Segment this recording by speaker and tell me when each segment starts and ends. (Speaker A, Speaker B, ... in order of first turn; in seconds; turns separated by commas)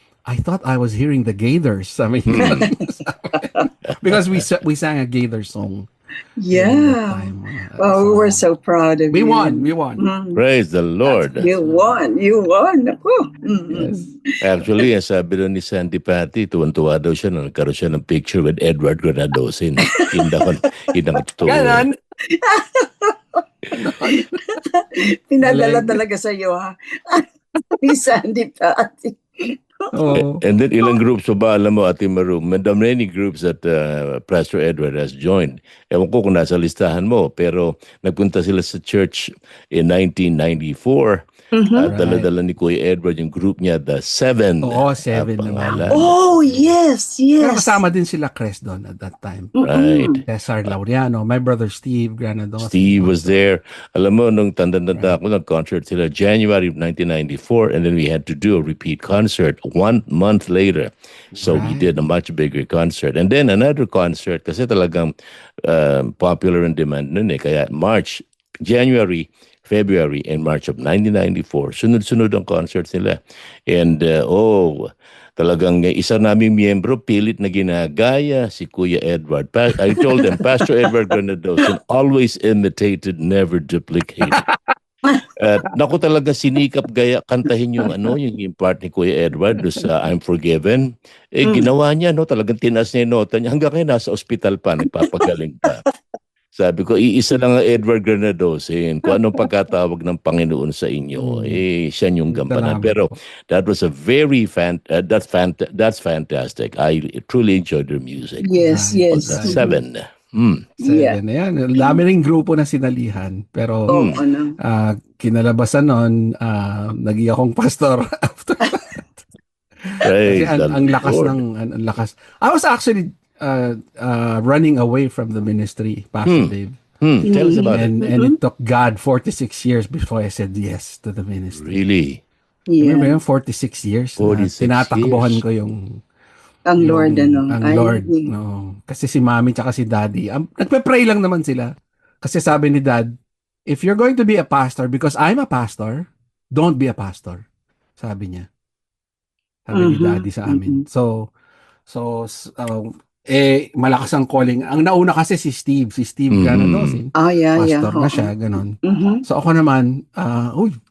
Speaker A: 0.2-5.9, Speaker B: 2.3-2.7, Speaker C: 2.4-2.8, Speaker C: 3.4-3.6, Speaker B: 4.1-4.4, Speaker C: 6.4-10.4, Speaker A: 6.5-8.4, Speaker A: 9.1-10.0, Speaker B: 10.3-11.5, Speaker C: 11.0-14.3, Speaker A: 13.7-14.1, Speaker B: 14.4-21.8, Speaker C: 19.8-20.6, Speaker C: 21.1-21.6, Speaker A: 21.4-21.9, Speaker C: 22.2-23.4, Speaker A: 23.7-24.6, Speaker C: 24.1-30.2, Speaker A: 25.4-26.0, Speaker A: 29.9-30.4, Speaker B: 30.2-46.6, Speaker C: 41.5-41.9, Speaker A: 41.9-42.3, Speaker A: 44.6-46.1, Speaker C: 45.9-47.8, Speaker A: 47.4-49.5, Speaker C: 49.6-50.2, Speaker B: 49.6-50.2, Speaker A: 50.2-53.4, Speaker B: 52.6-84.4, Speaker A: 61.3-61.9, Speaker A: 84.3-84.6, Speaker B: 85.3-95.8, Speaker B: 96.5-108.5, Speaker A: 101.2-101.6, Speaker A: 102.3-103.1, Speaker C: 108.4-109.7, Speaker A: 108.6-109.7, Speaker B: 109.1-110.7, Speaker A: 110.8-114.0, Speaker C: 110.8-111.2, Speaker B: 113.9-114.2, Speaker C: 113.9-114.6, Speaker A: 114.6-119.2, Speaker A: 119.8-126.8, Speaker B: 120.0-121.4, Speaker B: 126.2-127.9, Speaker C: 127.3-128.3, Speaker A: 127.3-131.8, Speaker B: 131.6-132.2, Speaker C: 132.7-133.2, Speaker A: 132.8-136.0, Speaker B: 134.2-135.4, Speaker C: 136.7-138.3, Speaker A: 136.8-143.1, Speaker A: 143.7-147.4, Speaker A: 148.0-148.5, Speaker A: 149.7-151.3, Speaker C: 149.7-150.8, Speaker A: 151.9-160.8, Speaker B: 156.3-157.0, Speaker C: 157.2-158.3, Speaker C: 158.8-159.2